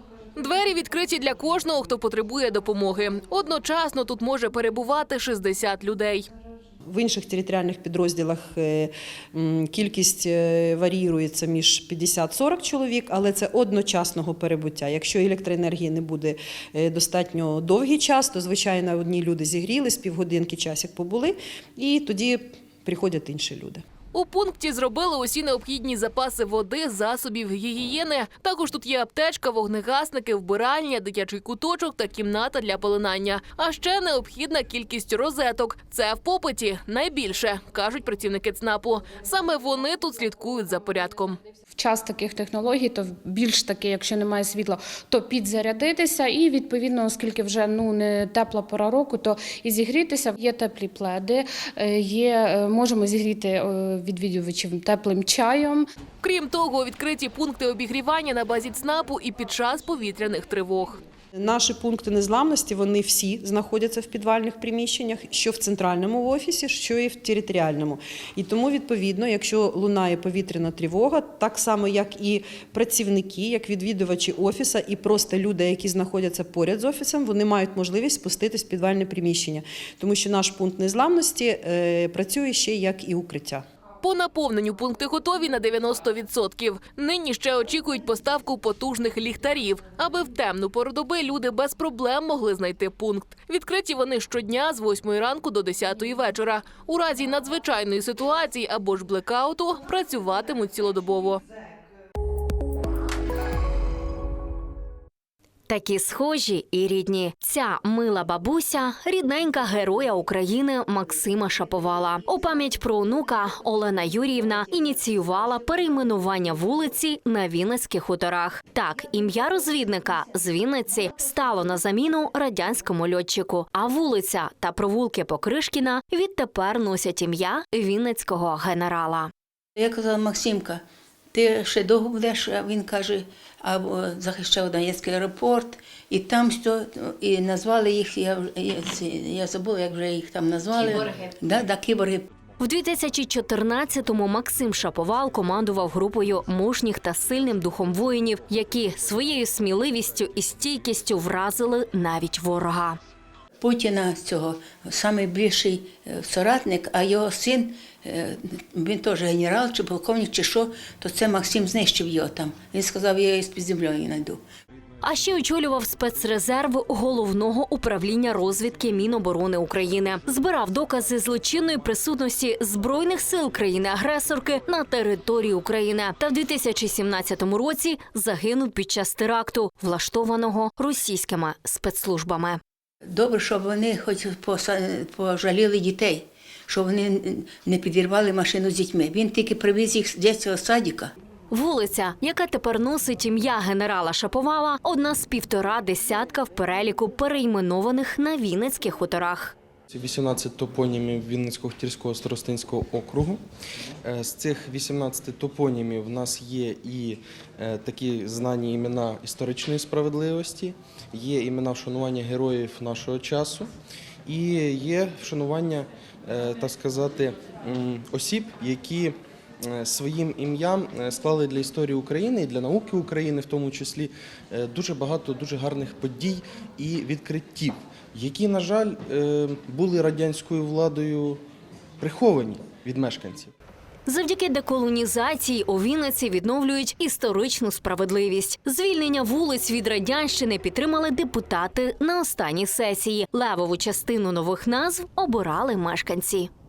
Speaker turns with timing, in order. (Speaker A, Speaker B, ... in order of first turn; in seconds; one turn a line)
Speaker A: 0.4-6.3
Speaker B: 6.9-23.8
Speaker A: 24.1-41.4
Speaker C: 41.8-55.9
Speaker A: 56.2-61.0
Speaker B: 61.4-83.7
Speaker A: 84.0-101.4
Speaker D: 105.7-129.3
Speaker E: 129.8-142.3
Speaker D: 142.6-153.0
Speaker E: 153.6-164.4
Speaker D: 165.0-182.6
Speaker E: 183.1-191.1
Speaker D: 191.5-199.6
Speaker F: 199.9-203.4
Speaker F: 204.1-213.7
Speaker F: 214.3-219.2
Speaker F: 219.7-231.4
Speaker F: 232.0-233.5
Speaker D: 234.1-246.5